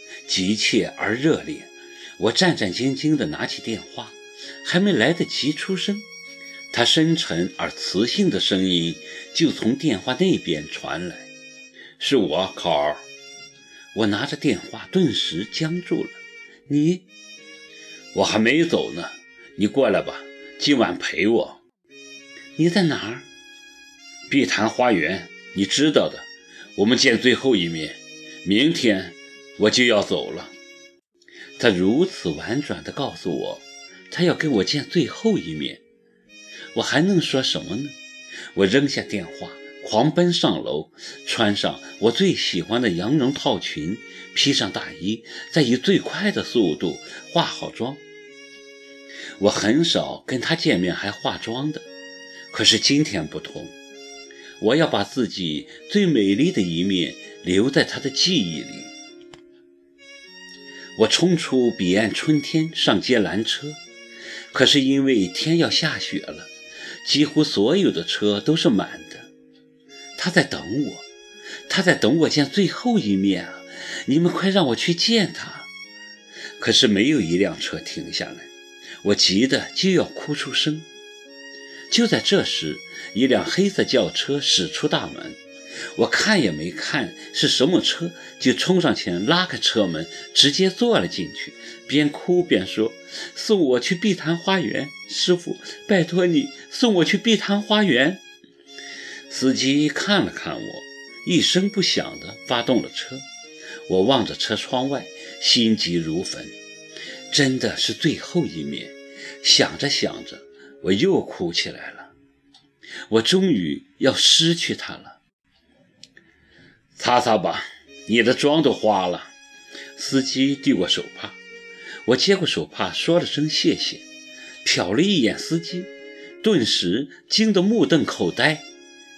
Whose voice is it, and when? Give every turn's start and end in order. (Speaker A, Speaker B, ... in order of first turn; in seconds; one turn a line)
Speaker A: 0.3-6.1
Speaker A: 6.7-11.3
Speaker A: 12.0-13.0
Speaker A: 13.9-16.2
Speaker A: 16.7-17.0
Speaker A: 18.1-21.6
Speaker A: 22.6-23.3
Speaker A: 24.3-30.5
Speaker A: 31.6-35.8
Speaker A: 36.8-37.9
Speaker A: 38.5-48.0
Speaker A: 49.4-51.9
Speaker A: 52.5-53.7
Speaker A: 54.6-58.9
Speaker A: 61.0-63.8
Speaker A: 64.5-66.5
Speaker A: 67.0-69.3
Speaker A: 70.2-71.0
Speaker A: 71.7-75.7
Speaker A: 76.6-78.5
Speaker A: 79.0-80.9
Speaker A: 81.9-85.4
Speaker A: 86.0-98.2
Speaker A: 99.3-103.2
Speaker A: 103.9-106.5
Speaker A: 107.3-112.1
Speaker A: 113.1-115.2
Speaker A: 117.0-119.3
Speaker A: 120.0-121.4
Speaker A: 122.1-124.0
Speaker A: 124.6-125.9
Speaker A: 126.4-128.6